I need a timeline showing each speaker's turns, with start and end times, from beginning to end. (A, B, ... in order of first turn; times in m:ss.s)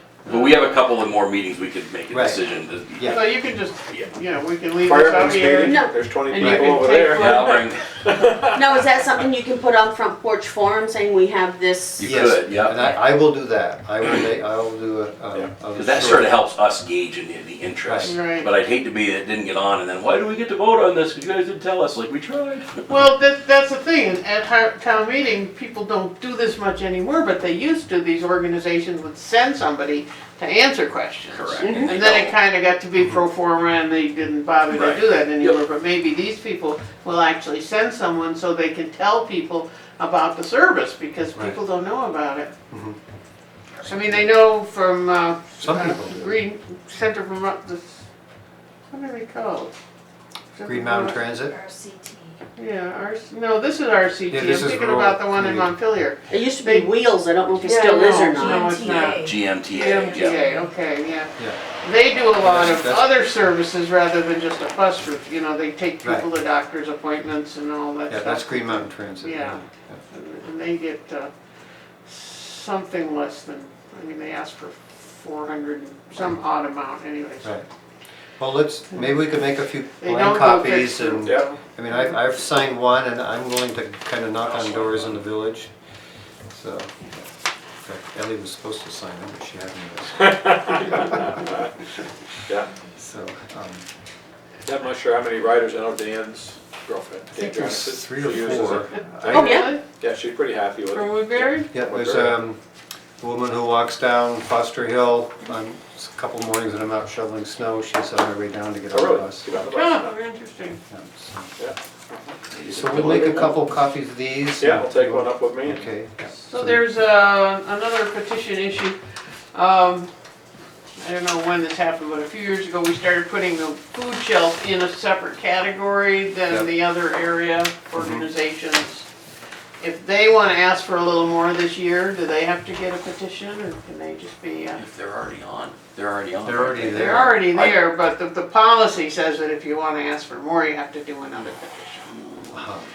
0:00.2-0:03.3 A
0:00.3-0:00.8 B
0:02.1-0:02.4 C
0:02.9-0:03.2 C
0:03.0-0:07.7 B
0:04.8-0:09.3 D
0:05.6-0:06.0 E
0:06.4-0:06.8 C
0:07.1-0:07.8 A
0:08.5-0:12.0 E
0:12.0-0:12.9 A
0:12.0-0:16.3 C
0:15.7-0:23.0 A
0:17.8-0:18.1 C
0:18.0-0:18.5 B
0:22.9-0:42.5 B
0:31.3-0:32.4 A
0:31.6-0:32.0 E
0:34.7-0:35.6 A
0:41.3-0:41.6 C
0:42.7-0:43.0 C
0:43.8-0:44.4 C
0:43.9-0:48.0 B
0:45.6-0:46.3 C
0:48.9-0:49.7 B
0:50.5-0:51.2 B
0:50.6-0:51.6 C
0:51.5-0:52.4 F
0:52.6-0:56.9 B
0:54.3-0:55.7 C
0:56.3-0:59.1 E
0:57.6-1:11.3 B
0:58.4-0:59.4 F
0:59.2-1:00.4 A
1:02.2-1:03.1 C
1:08.1-1:10.0 C
1:12.0-1:17.6 B
1:18.4-1:25.7 C
1:20.0-1:21.6 B
1:24.4-1:25.2 A
1:26.5-1:27.2 C
1:27.8-1:31.6 C
1:30.2-1:31.6 D
1:33.0-1:33.8 C
1:34.6-1:42.4 D
1:37.3-1:39.4 C
1:39.2-1:39.8 B
1:39.3-1:39.8 E
1:40.9-1:41.7 B
1:41.7-1:42.6 C
1:43.2-1:49.5 C
1:48.9-1:50.1 D
1:49.7-1:50.8 B
1:50.9-1:51.5 C
1:51.6-1:53.5 D
1:52.5-1:53.6 A
1:52.7-1:56.8 C
1:54.6-1:55.9 D
1:56.3-1:59.0 B
1:59.5-2:00.1 B
2:01.0-2:09.0 B
2:08.0-2:08.2 C
2:09.8-2:14.8 B
2:14.7-2:17.8 A
2:16.4-2:17.5 C
2:16.9-2:22.5 B
2:22.5-2:22.8 C